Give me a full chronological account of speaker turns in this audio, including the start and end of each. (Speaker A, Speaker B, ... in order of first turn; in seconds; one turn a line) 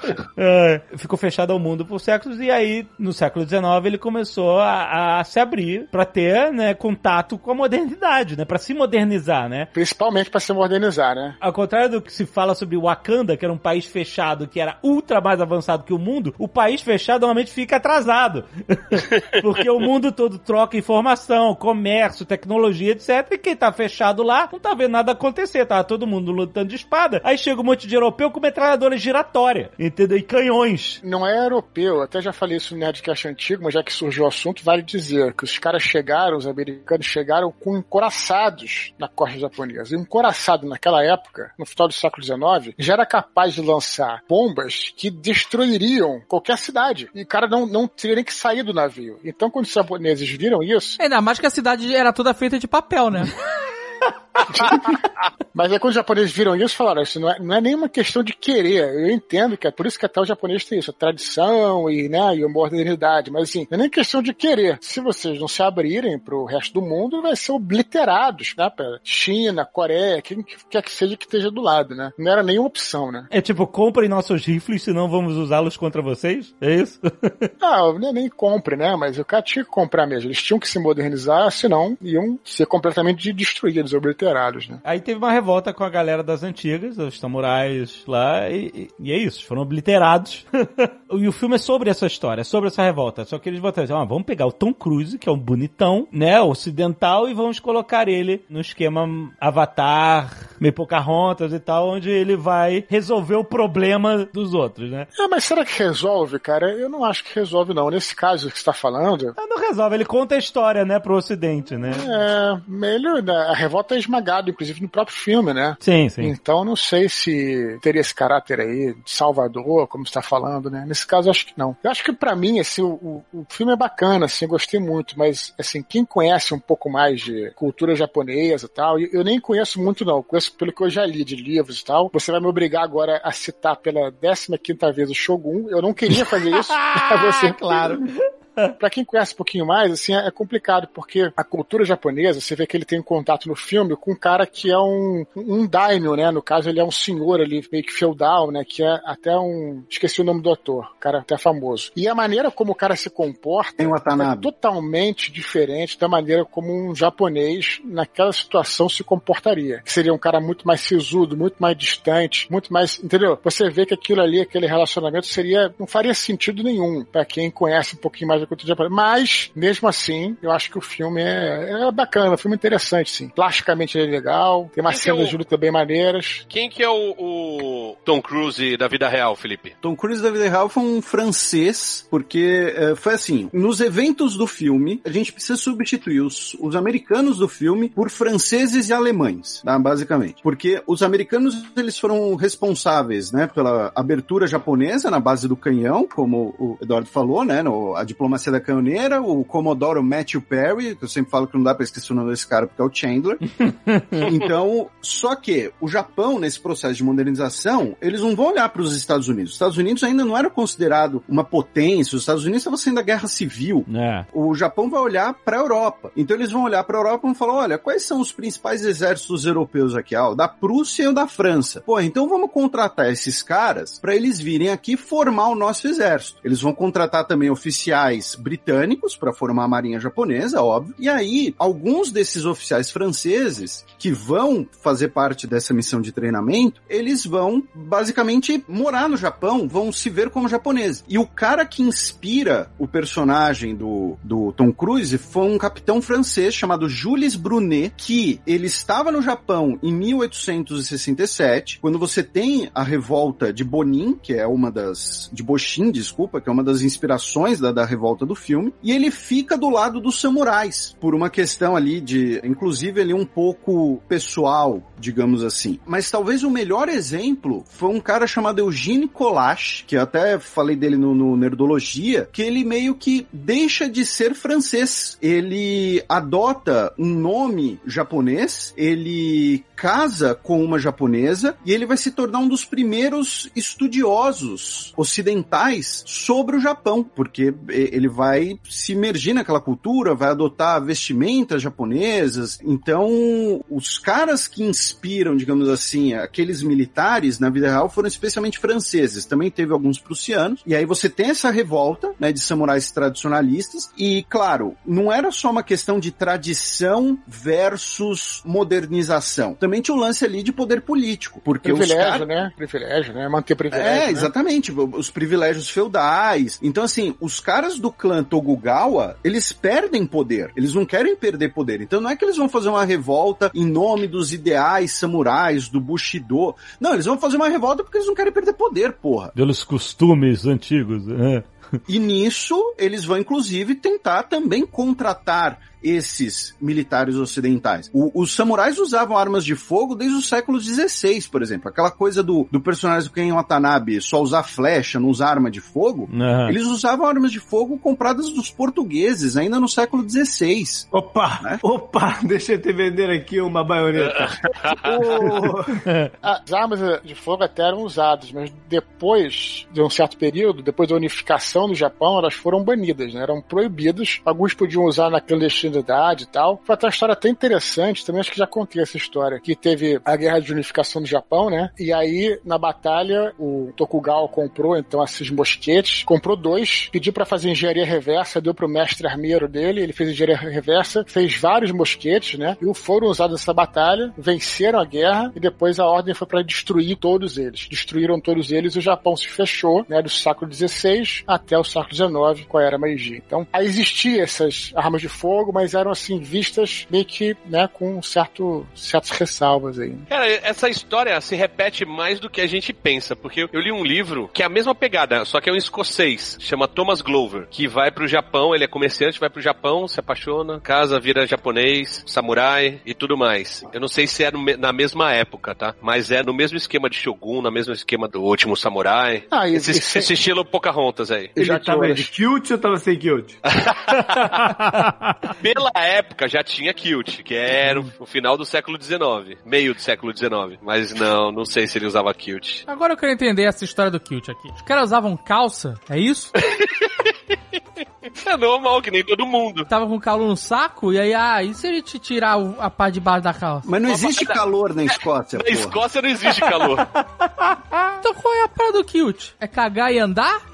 Speaker A: 0.4-9.7
Speaker B: 9.7-11.4
Speaker A: 11.4-31.0
Speaker B: 31.0-51.0
Speaker C: 51.0-53.3
Speaker B: 54.5-55.0
Speaker B: 55.5-73.3
Speaker A: 73.3-77.5
Speaker B: 77.6-84.8
Speaker A: 84.8-105.1
Speaker B: 105.2-109.3
Speaker A: 109.4-112.1
Speaker B: 111.9-138.1
Speaker A: 115.8-116.3
Speaker A: 136.1-138.7
Speaker B: 138.7-176.4
Speaker D: 153.8-154.5
Speaker E: 174.9-175.3
Speaker E: 176.5-179.7
Speaker D: 179.8-203.4
Speaker A: 203.6-204.2
Speaker D: 204.2-312.3
Speaker A: 213.9-214.3
Speaker B: 311.6-314.3
Speaker D: 313.7-329.3
Speaker A: 329.3-331.8
Speaker D: 331.9-350.9
Speaker A: 346.1-346.6
Speaker F: 350.9-355.8
Speaker E: 354.5-354.9
Speaker A: 355.9-356.1
Speaker B: 356.2-400.0
Speaker E: 400.1-421.3
Speaker B: 419.3-420.1
Speaker B: 421.4-422.1
Speaker F: 421.4-423.4
Speaker E: 423.5-424.5
Speaker A: 424.2-425.2
Speaker E: 425.4-432.6
Speaker C: 432.7-436.3
Speaker E: 436.4-437.1
Speaker E: 438.1-439.7
Speaker C: 439.7-443.8
Speaker D: 443.6-445.8
Speaker E: 443.9-444.4
Speaker E: 445.4-446.9
Speaker A: 446.5-448.0
Speaker C: 448.0-450.4